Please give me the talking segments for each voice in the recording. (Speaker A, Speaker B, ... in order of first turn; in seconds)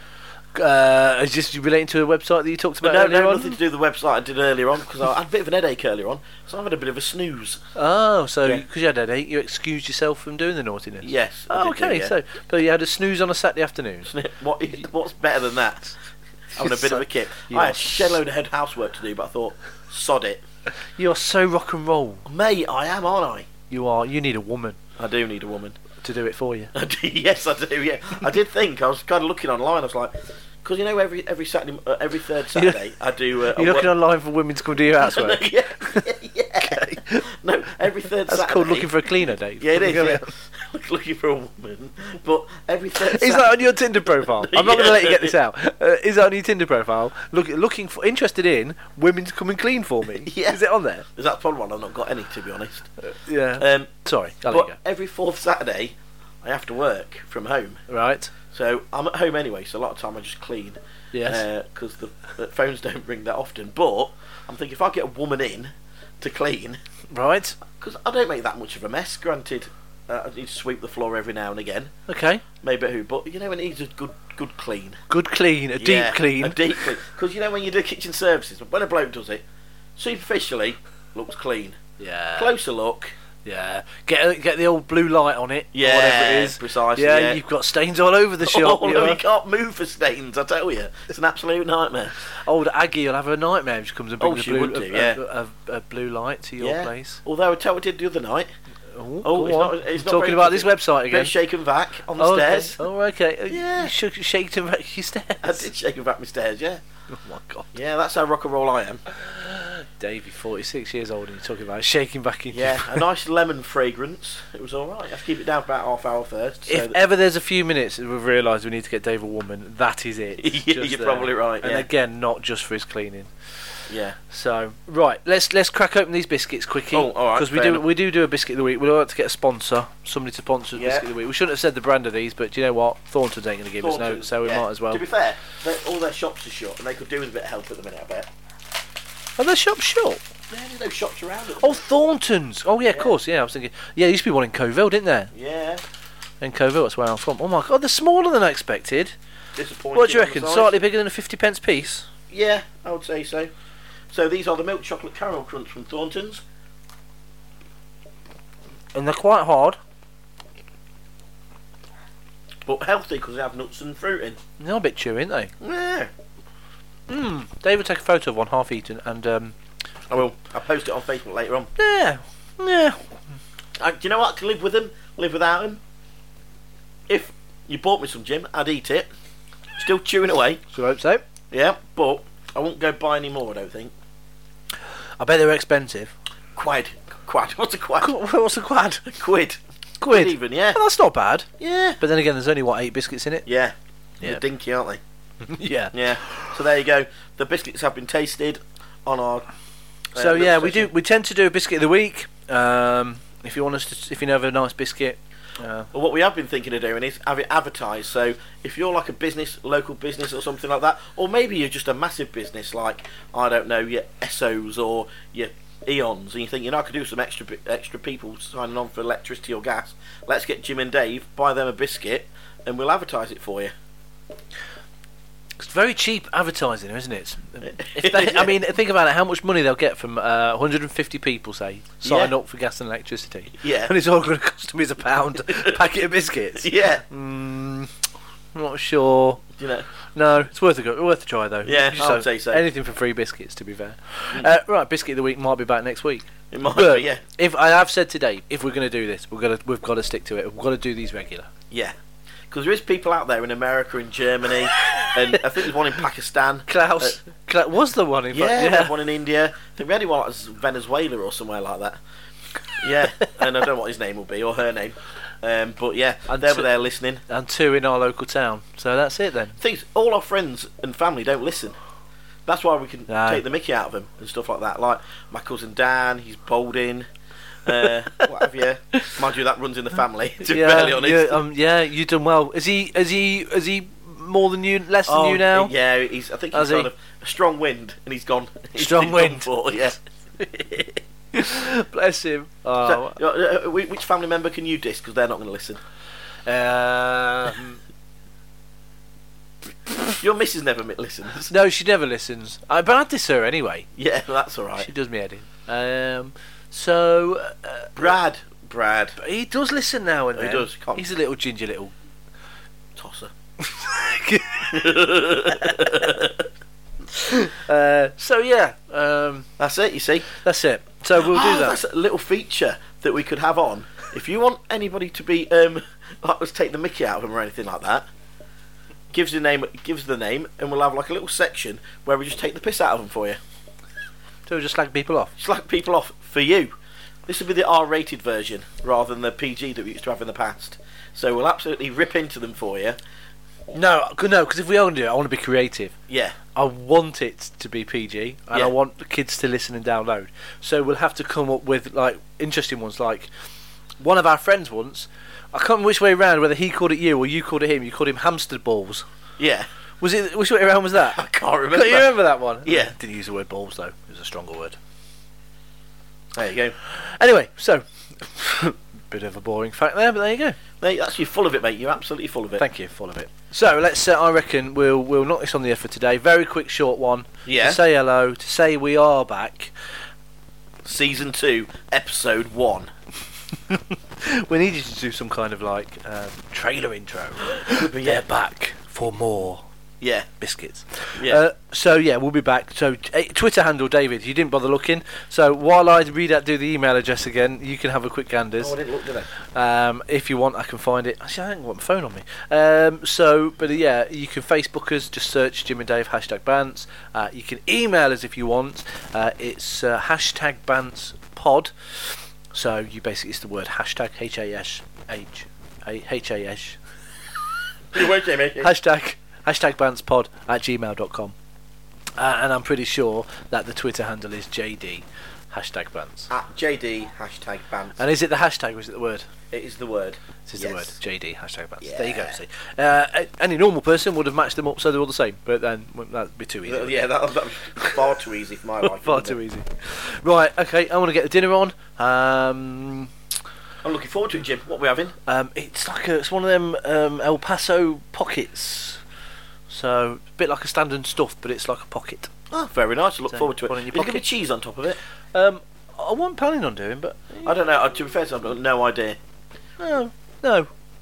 Speaker A: 0.6-3.6, 7.8-14.1, 16.6-18.2, 20.9-22.3, 23.7-24.8, 26.0-26.7, 32.5-32.8, 33.5-36.1, 36.6-37.3, 38.3-40.3, 43.0-51.1, 53.0-54.8, 57.9-58.3, 61.1-61.5, 67.1-67.6, 72.1-72.4, 75.1-76.8, 82.0-82.6, 83.5-89.2, 92.3-97.2, 98.9-101.3, 102.2-105.7, 107.1-107.7, 109.1-113.0, 116.7-123.3, 124.3-135.0, 139.4-140.2, 141.6-145.3, 146.4-149.2, 149.9-152.1, 158.9-159.8, 164.6-165.5, 167.1-169.6, 171.8-173.0, 180.7-181.2, 185.2-186.1, 188.0-189.1, 190.0-193.5, 195.4-196.6, 200.2-205.9, 225.6-237.9, 238.5-239.4, 240.1-251.5, 256.7-258.9, 266.3-266.7, 267.3-269.6, 273.1-273.4, 280.4-285.7, 286.5-286.9, 288.8-289.5, 291.3-293.2, 296.5-297.8, 301.5-303.9, 304.8-308.1, 309.2-311.9, 313.6-316.0, 317.1-319.5, 320.4-321.8, 334.5-335.3, 343.7-345.9, 346.5-353.3, 354.0-359.1, 360.0-364.8, 366.8-370.6, 372.6-379.7, 383.7-389.7, 390.4-398.8, 399.5-416.8, 418.6-421.3, 422.2-426.3, 428.0-429.3, 430.5-437.1, 438.9-443.1, 445.3-449.0, 449.7-452.3, 453.3-454.3, 455.3-457.5, 459.8-460.7
Speaker B: 2.8-7.6, 11.0-12.1, 14.1-15.9, 16.6-20.4, 22.3-23.5, 25.0-25.8, 26.7-33.9, 35.0-43.6, 44.2-45.4, 50.2-52.9, 53.6-53.9, 54.5-57.8, 58.5-66.8, 67.7-71.9, 72.6-75.0, 75.8-79.4, 80.0-81.8, 82.4-83.1, 85.7-87.4, 88.4-92.2, 94.2-95.2, 96.6-98.5, 99.2-102.8, 103.5-103.9, 105.4-106.8, 107.7-109.0, 112.5-117.0, 120.4-121.9, 123.9-124.2, 126.9-127.8, 130.8-131.1, 133.8-138.3, 140.5-141.8, 142.8-143.2, 145.3-145.8, 149.6-150.8, 152.3-153.5, 154.1-156.4, 162.7-164.4, 165.6-166.1, 170.1-171.7, 173.8-175.8, 177.1-179.1, 179.8-180.6, 181.5-183.9, 186.6-188.1, 189.1-190.8, 191.6-192.0, 193.5-195.0, 195.9-199.5, 200.1-200.9, 205.9-223.7, 227.7-228.6, 232.0-232.3, 233.6-233.9, 236.6-237.0, 239.6-239.9, 241.7-242.6, 246.5-247.2, 251.7-251.9, 252.5-257.2, 258.3-262.0, 262.8-267.2, 269.6-271.8, 272.5-277.1, 277.6-281.4, 285.1-291.0, 292.8-295.8, 300.2-301.5, 304.0-304.9, 308.0-309.2, 310.4-311.0, 313.0-313.3, 314.7-316.5, 319.6-320.3, 321.1-328.1, 329.1-333.4, 335.4-336.7, 337.3-343.0, 346.1-346.4, 359.4-359.7, 361.0-362.1, 362.6-362.9, 366.3-366.8, 370.8-372.7, 377.4-377.8, 380.9-382.9, 387.6-388.2, 390.0-390.3, 391.2-391.4, 398.6-399.3, 417.9-418.7, 426.3-428.0, 429.5-431.0, 431.8-432.4, 436.6-439.4, 443.8-445.1, 452.5-455.0, 457.4-459.2